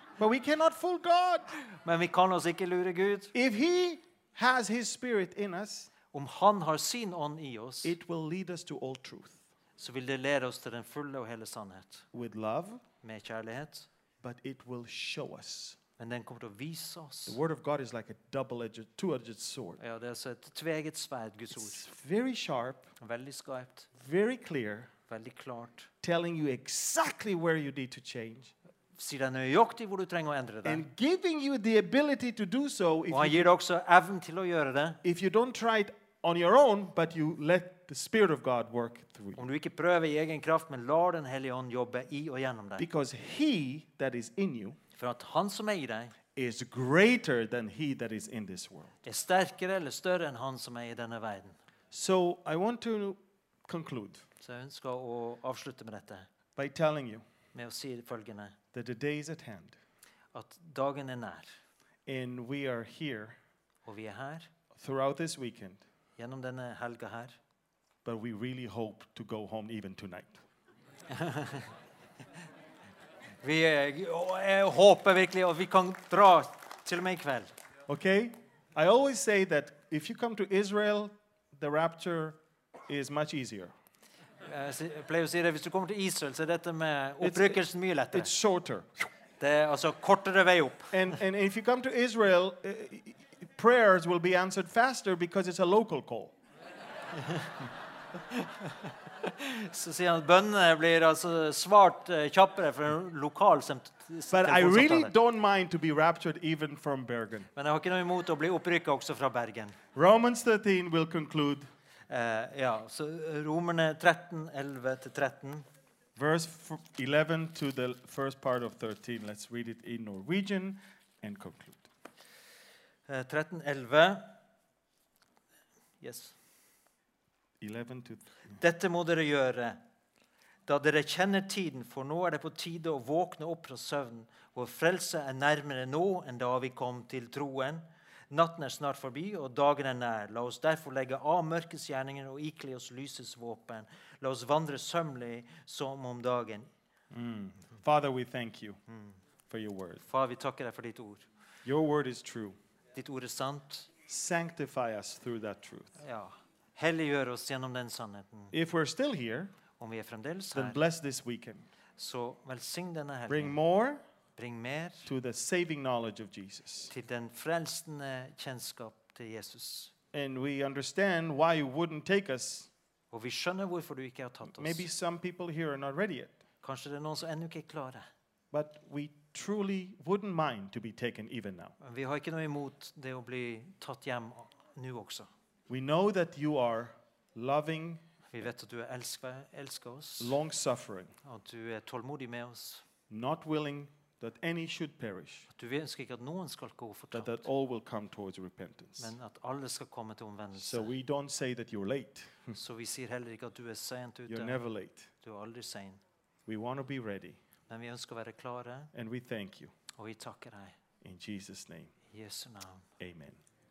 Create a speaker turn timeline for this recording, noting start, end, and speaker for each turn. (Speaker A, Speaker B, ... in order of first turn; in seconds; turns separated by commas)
Speaker A: 0.2-1.5, Speaker B: 1.7-3.3, Speaker A: 3.3-5.9, Speaker B: 6.1-7.9, Speaker A: 7.8-9.4, Speaker B: 9.8-12.0, Speaker A: 12.1-12.8, Speaker B: 13.0-13.9, Speaker A: 14.2-15.8, Speaker B: 16.0-17.4, Speaker A: 17.3-19.8, Speaker B: 19.8-21.8, Speaker A: 21.5-22.9, Speaker B: 23.0-23.9, Speaker A: 24.0-24.9, Speaker B: 25.1-25.9, Speaker A: 26.0-28.5, Speaker B: 28.9-30.8, Speaker A: 30.6-33.5, Speaker B: 33.1-35.0, Speaker A: 35.0-39.4, Speaker B: 39.4-42.9, Speaker A: 42.8-44.8, Speaker B: 45.0-46.1, Speaker A: 46.3-48.9, Speaker B: 49.0-51.5, Speaker A: 51.9-54.2, Speaker B: 54.4-56.3, Speaker A: 56.5-57.2, Speaker B: 57.5-58.6, Speaker A: 58.7-59.8, Speaker B: 60.3-61.5, Speaker A: 62.1-63.4, Speaker B: 63.8-64.5, Speaker A: 64.8-65.8, Speaker B: 66.2-67.4, Speaker A: 68.0-70.4, Speaker B: 71.1-71.7, Speaker B: 73.4-77.5, Speaker A: 77.9-83.7, Speaker B: 84.4-88.3, Speaker A: 87.2-87.6, Speaker A: 88.1-88.9, Speaker B: 89.4-90.9, Speaker A: 90.9-96.3, Speaker B: 97.1-97.5, Speaker B: 98.3-105.1, Speaker A: 104.3-107.5, Speaker B: 107.5-109.8, Speaker A: 109.9-111.7, Speaker B: 112.1-115.7, Speaker A: 116.2-121.9, Speaker B: 123.1-124.4, Speaker B: 126.0-126.3, Speaker A: 127.6-128.6, Speaker B: 128.6-129.8, Speaker B: 130.7-146.7, Speaker A: 147.1-148.8, Speaker A: 149.5-150.0, Speaker B: 150.0-151.3, Speaker A: 151.6-152.6, Speaker B: 152.9-153.9, Speaker A: 154.1-156.0, Speaker B: 156.0-158.5, Speaker A: 158.5-159.5, Speaker B: 159.8-160.8, Speaker A: 160.5-161.7, Speaker B: 162.0-163.6, Speaker A: 163.3-164.0, Speaker B: 164.3-165.1, Speaker A: 165.1-166.9, Speaker B: 166.9-169.9, Speaker A: 170.1-172.7, Speaker B: 173.1-174.9, Speaker A: 174.5-176.4, Speaker B: 176.6-178.1, Speaker A: 178.5-181.7, Speaker B: 181.8-185.3, Speaker A: 185.7-188.0, Speaker B: 188.3-190.4, Speaker A: 190.2-191.1, Speaker B: 191.2-192.8, Speaker A: 193.1-195.5, Speaker B: 195.5-197.4, Speaker A: 197.1-199.1, Speaker B: 199.0-200.9, Speaker A: 200.6-202.6, Speaker B: 202.5-204.6, Speaker A: 204.3-205.1, Speaker B: 205.2-206.0, Speaker A: 206.5-207.4, Speaker B: 207.7-208.9, Speaker A: 208.9-209.7, Speaker B: 209.9-210.8, Speaker A: 211.0-211.9, Speaker B: 212.1-212.8, Speaker A: 213.0-213.4